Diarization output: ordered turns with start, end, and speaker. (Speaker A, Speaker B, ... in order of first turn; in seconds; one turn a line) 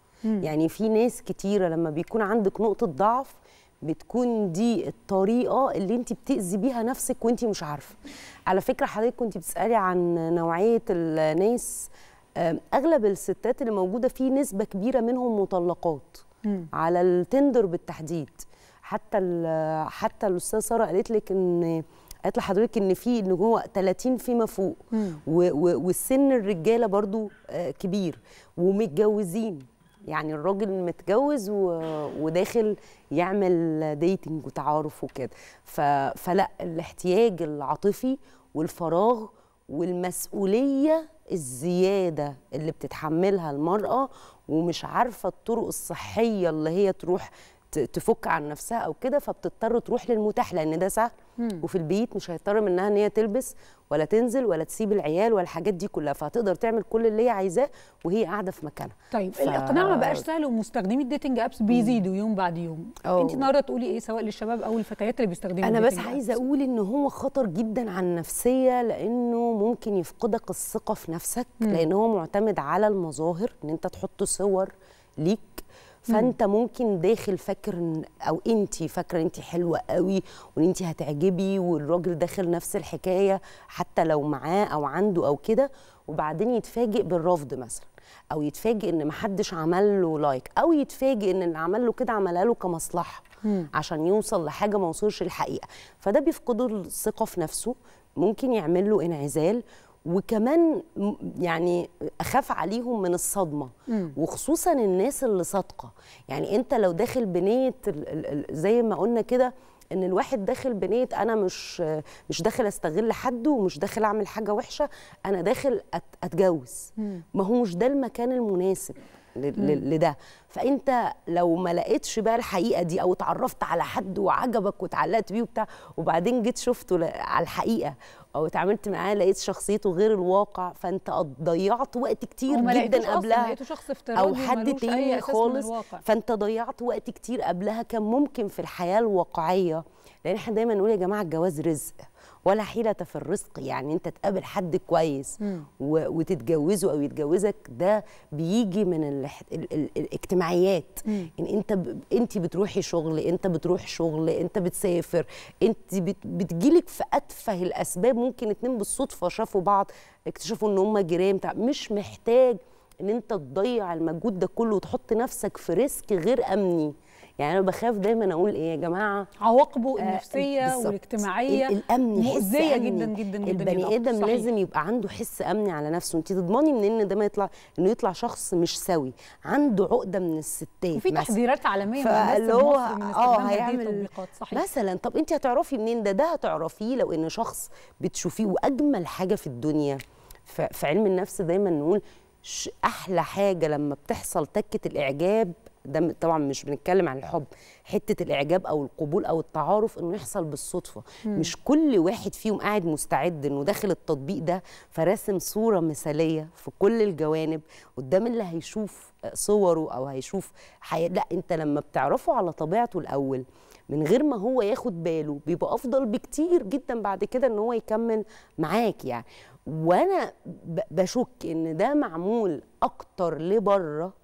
Speaker A: 0.4-60.2
Speaker B: 24.9-25.2
Speaker B: 59.1-66.4
Speaker A: 61.7-62.0
Speaker A: 63.0-63.5
Speaker A: 65.6-133.6
Speaker B: 103.9-104.1
Speaker B: 132.5-136.0
Speaker A: 134.1-169.3
Speaker B: 145.4-145.7
Speaker B: 169.4-174.5
Speaker A: 170.0-181.3
Speaker B: 180.9-184.6
Speaker A: 182.0-224.1
Speaker B: 201.2-201.5